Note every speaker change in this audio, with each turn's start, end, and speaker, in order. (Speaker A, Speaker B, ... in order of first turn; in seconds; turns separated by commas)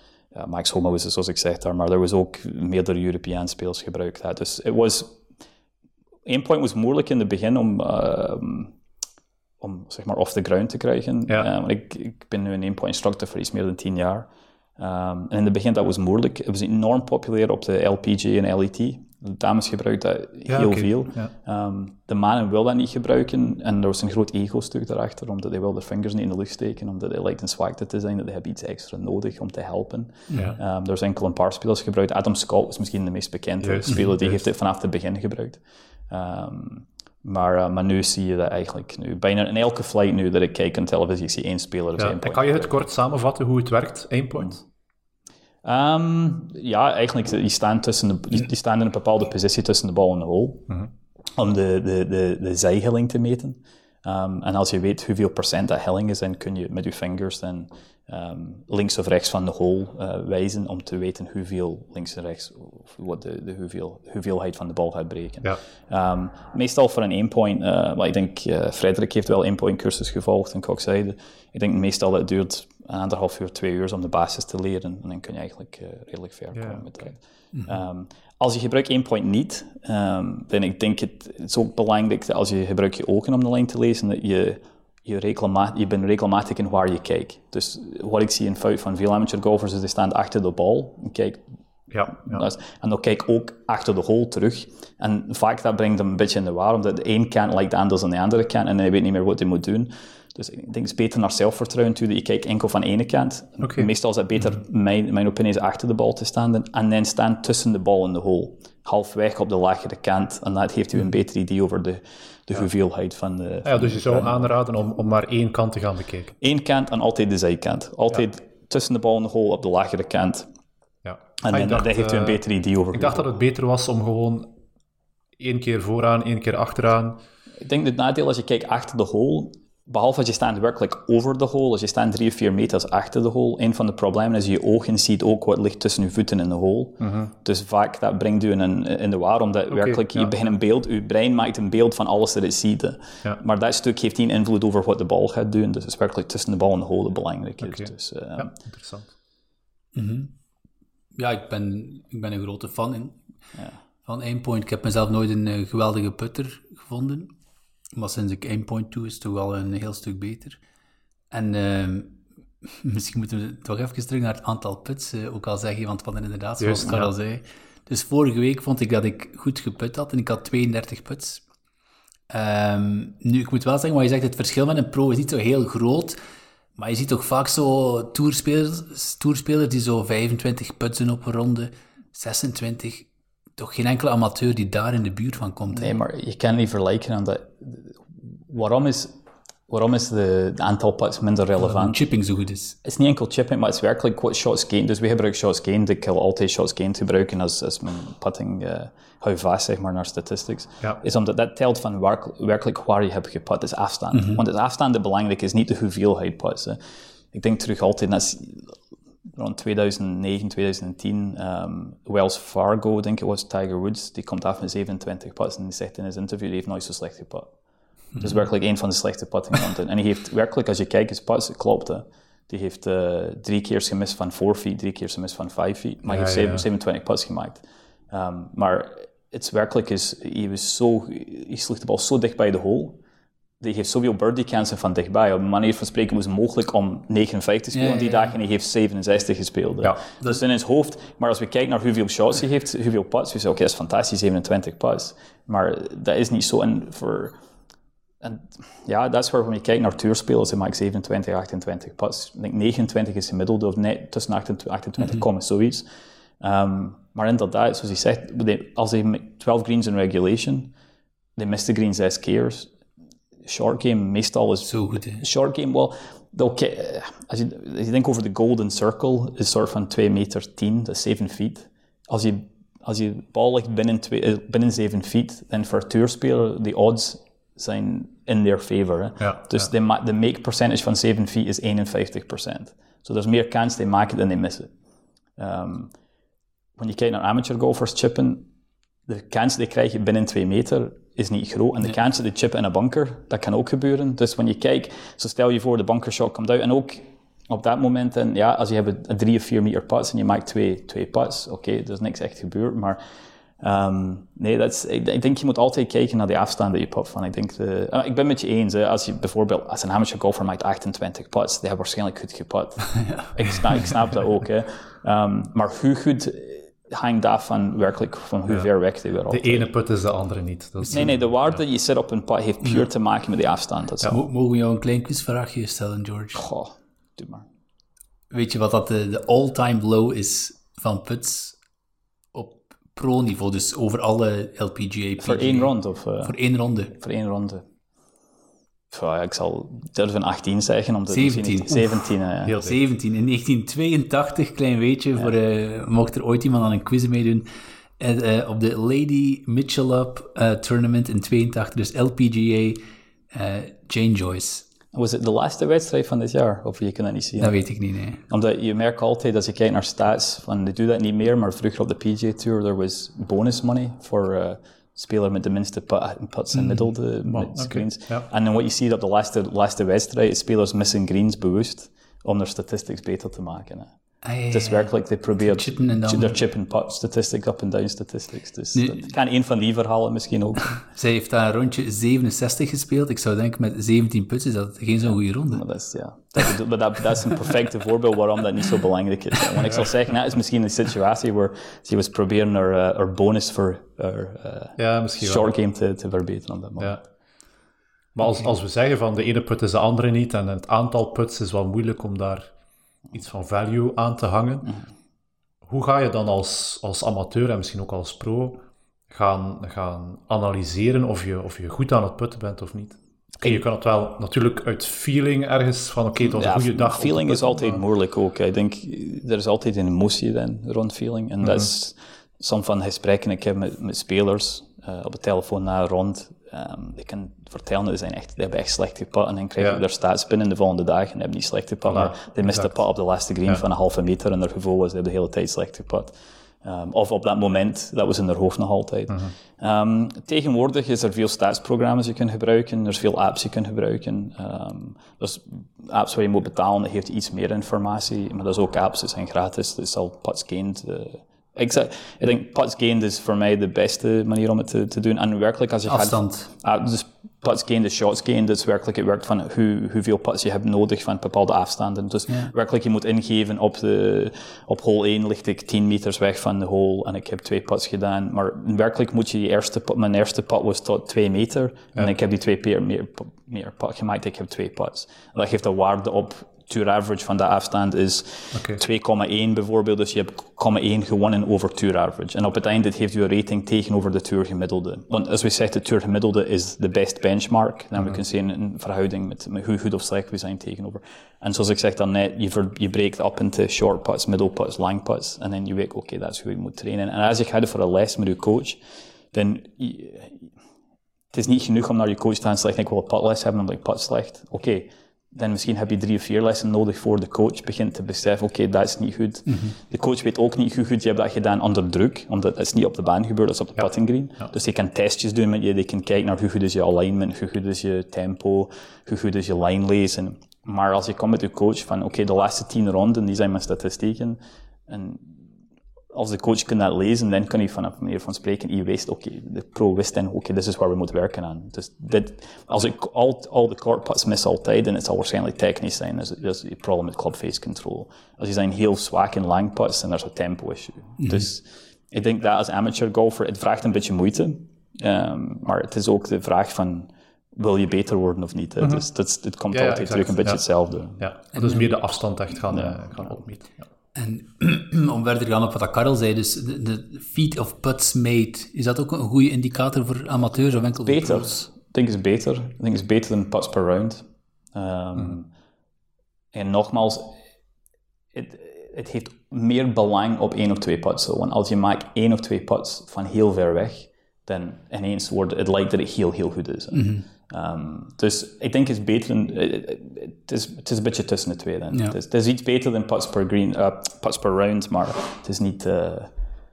Speaker A: 0.3-5.2, Speaker A: 6.2-8.8, Speaker A: 9.6-42.8, Speaker B: 20.5-21.3, Speaker C: 30.3-30.6, Speaker B: 33.6-34.4, Speaker C: 33.9-34.1, Speaker B: 42.0-44.6, Speaker A: 45.6-50.7, Speaker A: 51.3-91.4, Speaker B: 76.5-77.1, Speaker C: 77.5-77.8, Speaker B: 91.9-92.4, Speaker A: 92.1-114.5, Speaker B: 103.6-103.9, Speaker B: 113.6-116.3, Speaker A: 116.4-120.5, Speaker B: 121.0-122.4, Speaker A: 121.4-123.3, Speaker B: 122.9-124.5, Speaker B: 125.4-127.2, Speaker A: 127.6-148.5, Speaker B: 137.0-137.3, Speaker B: 139.7-140.3, Speaker B: 147.6-149.1, Speaker C: 149.9-150.3, Speaker C: 151.1-153.2, Speaker C: 154.0-157.3, Speaker C: 157.9-160.6, Speaker C: 161.3-171.4, Speaker B: 166.6-167.1, Speaker C: 172.3-176.2, Speaker C: 176.8-185.9, Speaker A: 185.7-189.2, Speaker A: 189.7-192.0, Speaker C: 191.6-192.8, Speaker A: 192.8-206.8, Speaker C: 204.1-204.4, Speaker A: 207.3-208.8, Speaker A: 209.3-217.5, Speaker A: 218.2-233.0, Speaker B: 226.1-226.6, Speaker A: 233.6-247.4, Speaker C: 237.7-238.3, Speaker A: 248.2-255.8, Speaker A: 256.4-260.7, Speaker A: 261.4-262.7, Speaker A: 263.4-284.7, Speaker C: 264.7-265.2, Speaker B: 279.2-279.7, Speaker A: 285.4-285.9, Speaker A: 286.8-288.5, Speaker A: 289.1-303.0, Speaker A: 303.6-319.7, Speaker B: 319.3-321.5, Speaker A: 320.9-324.2, Speaker C: 324.0-326.4, Speaker A: 326.4-327.4, Speaker C: 328.3-331.6, Speaker C: 332.3-336.9, Speaker A: 335.2-336.4, Speaker A: 336.9-337.6, Speaker A: 338.9-342.6, Speaker C: 341.1-352.8, Speaker B: 342.4-342.7, Speaker C: 353.3-354.6, Speaker A: 354.9-357.6, Speaker C: 357.4-358.2, Speaker A: 358.3-373.9, Speaker C: 366.5-366.9, Speaker B: 367.2-368.3, Speaker C: 374.2-376.4, Speaker A: 374.5-380.8, Speaker C: 378.7-379.1, Speaker C: 380.7-385.6, Speaker A: 385.5-397.0, Speaker B: 394.8-395.5, Speaker B: 398.1-402.5, Speaker B: 403.1-404.7, Speaker B: 405.6-417.8, Speaker A: 416.2-498.8, Speaker B: 421.4-421.7, Speaker B: 431.9-432.7, Speaker C: 455.9-456.5, Speaker A: 499.3-500.5, Speaker A: 501.3-525.5, Speaker C: 509.5-509.8, Speaker A: 526.1-551.2, Speaker C: 541.2-541.5, Speaker B: 548.8-549.0, Speaker B: 549.7-550.6, Speaker B: 551.1-553.8, Speaker C: 551.5-551.9, Speaker A: 552.7-553.4, Speaker C: 554.1-561.6, Speaker A: 561.0-565.5, Speaker A: 566.5-567.4, Speaker A: 568.3-586.3, Speaker C: 576.9-577.3, Speaker C: 581.9-582.2